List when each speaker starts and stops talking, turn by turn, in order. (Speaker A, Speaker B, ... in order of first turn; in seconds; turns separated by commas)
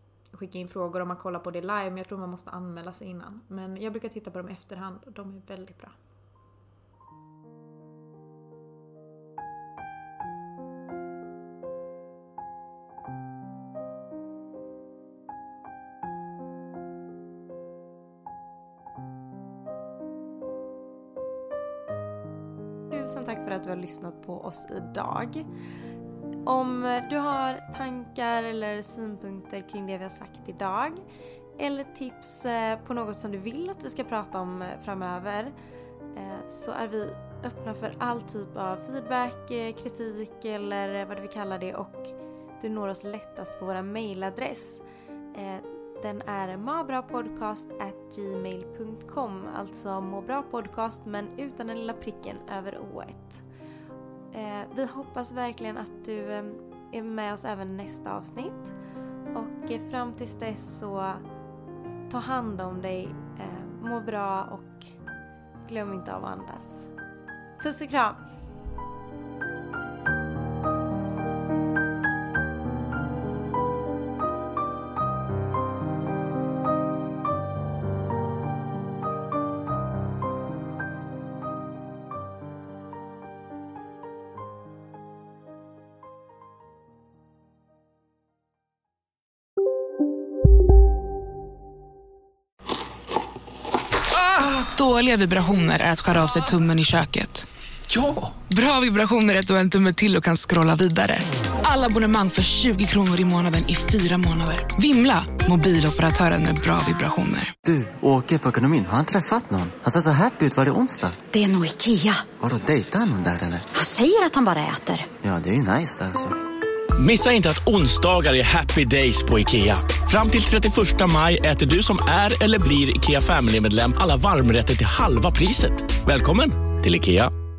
Speaker A: 0.3-5.9, Speaker B: 22.9-25.4, Speaker B: 26.5-31.0, Speaker B: 31.6-35.5, Speaker B: 36.1-44.8, Speaker B: 45.3-53.4, Speaker B: 54.3-58.8, Speaker B: 59.3-61.2, Speaker B: 62.1-64.9, Speaker B: 65.7-66.9, Speaker B: 67.6-68.2, Speaker C: 94.1-97.5, Speaker C: 98.3-107.5, Speaker D: 107.6-111.2, Speaker E: 111.3-112.3, Speaker D: 112.3-113.7, Speaker E: 113.7-115.1, Speaker D: 115.2-116.3, Speaker F: 117.0-127.3